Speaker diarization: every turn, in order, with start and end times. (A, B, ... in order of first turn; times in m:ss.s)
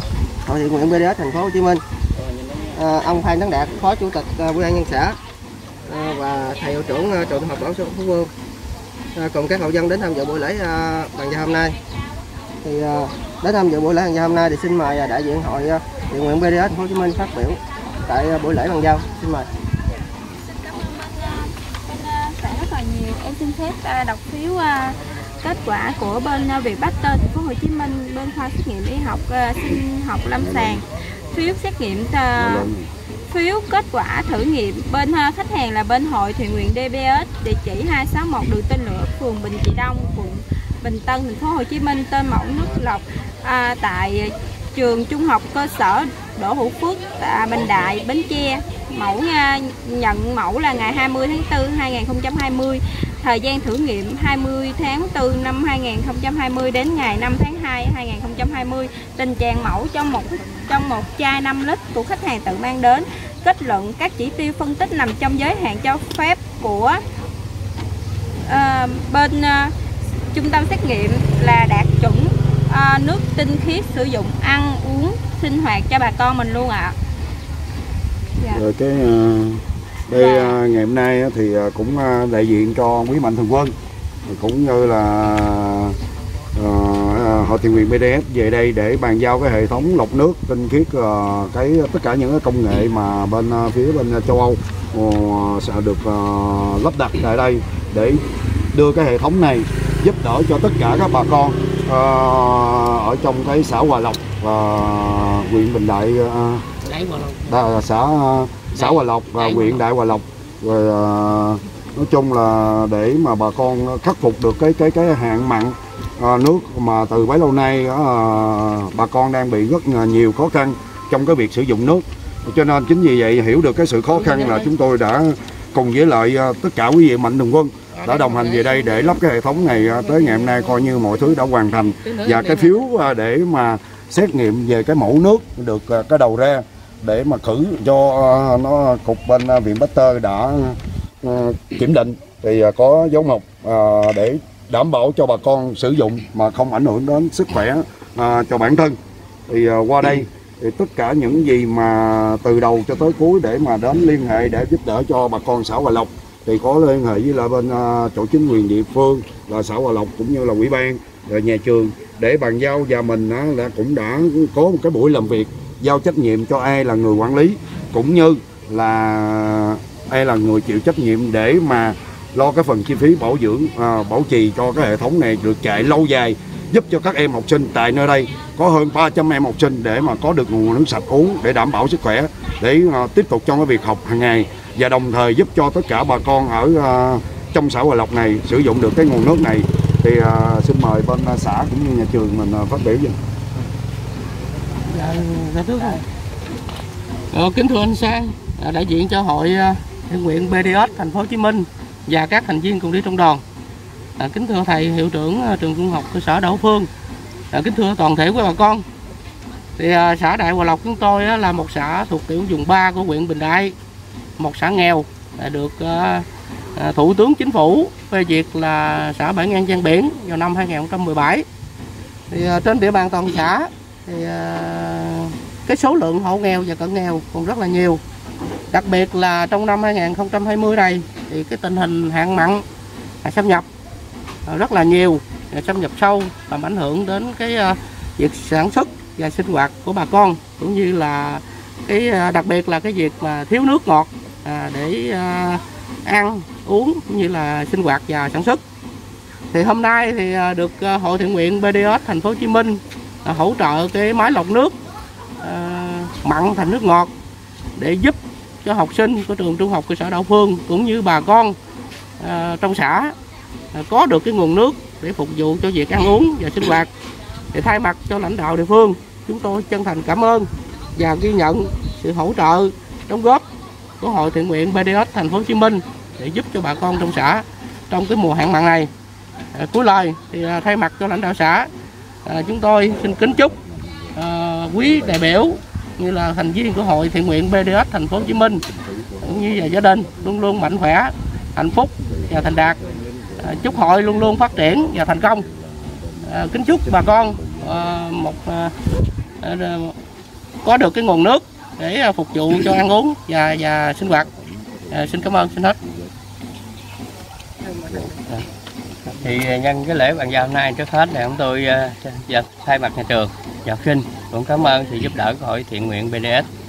0:00.4-0:01.8 A
0:02.8-0:05.2 A
0:05.9-0:08.3 A
0:09.2-0:11.8 A
0:12.6-0:19.5 A
0:21.0-0:32.7 B
0:30.4-0:30.8 C
0:32.4-0:32.8 C
0:33.3-1:07.0 B
1:08.5-1:09.7 B
1:10.3-1:17.0 B
1:18.5-1:23.7 C
1:20.1-1:20.5 B
1:24.3-1:26.0 C
1:26.6-1:46.7 C
1:46.8-1:47.6 D
1:47.5-2:29.0 C
1:48.8-1:49.8 D
2:04.2-2:04.7 D
2:08.0-2:09.1 D
2:12.0-2:12.7 D
2:29.5-3:13.2 C
3:14.9-3:16.0 D
3:17.3-3:23.4 D
3:24.2-3:26.9 D
3:27.5-3:28.8 D
3:29.8-3:33.8 D
3:34.4-3:36.2 D
3:36.8-3:41.5 D
3:42.3-3:48.0 D
3:48.7-3:52.6 D
3:53.2-3:53.7 D
3:54.5-4:08.6 D
4:09.5-4:14.8 D
4:15.4-4:17.1 D
4:17.8-4:21.6 D
4:22.2-4:23.2 D
4:23.7-4:26.9 D
4:27.5-4:33.4 D
4:34.0-4:38.9 D
4:39.5-4:41.7 D
4:42.2-4:43.6 D
4:44.2-4:48.6 D
4:49.2-4:52.8 D
4:53.4-4:55.5 D
4:56.2-4:58.7 D
4:59.4-5:00.0 D
5:00.6-5:04.3 D
5:04.9-5:05.8 D
5:09.1-5:16.5 E